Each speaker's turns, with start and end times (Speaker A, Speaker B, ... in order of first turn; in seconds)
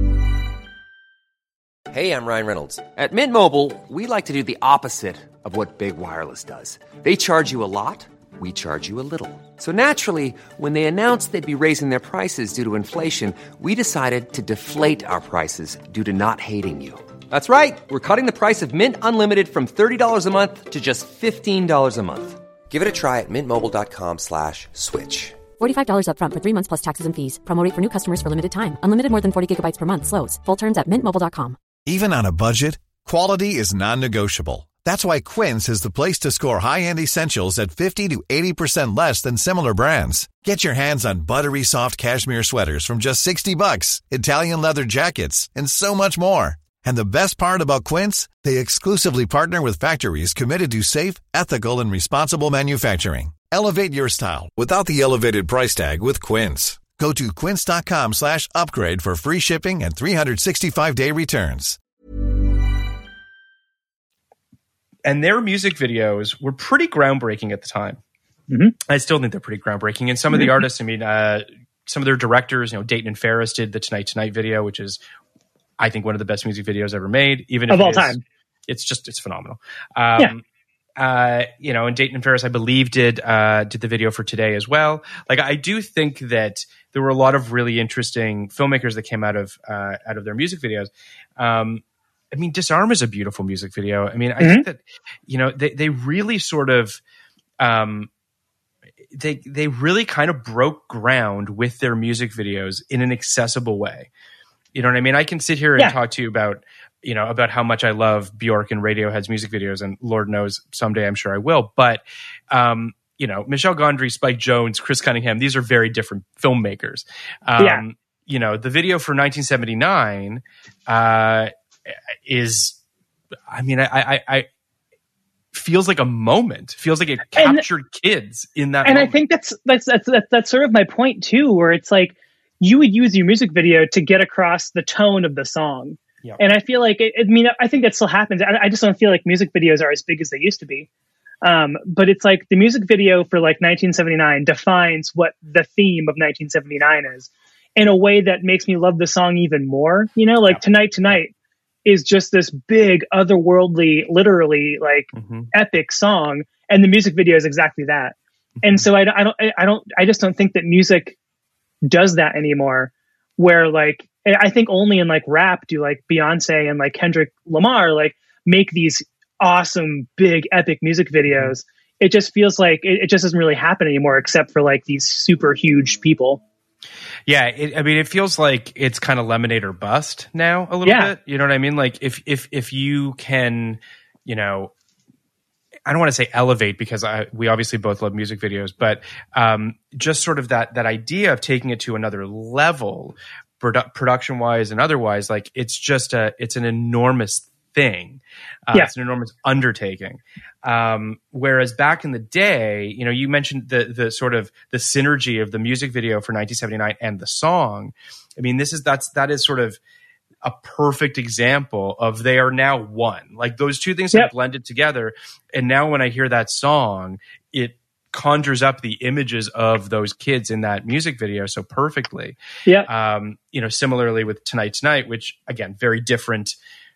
Speaker A: 1.9-25.5
Speaker B: 25.6-31.6
Speaker C: 31.9-61.8
Speaker D: 65.0-68.0, 68.9-75.0, 75.8-78.2, 78.7-80.4, 81.0-97.0, 97.6-98.1, 99.1-104.1, 104.7-121.5, 122.3-122.8, 123.5-124.5, 125.5-129.2, 150.5-151.2, 155.2-155.5, 158.6-158.9, 177.3-184.7, 185.9-209.8, 210.4-226.6
Speaker E: 68.5-68.8, 77.7-78.2, 94.4-94.7, 117.6-117.8, 127.3-127.6, 128.8-140.9, 141.4-151.3, 151.8-161.2, 161.9-176.4, 180.8-181.1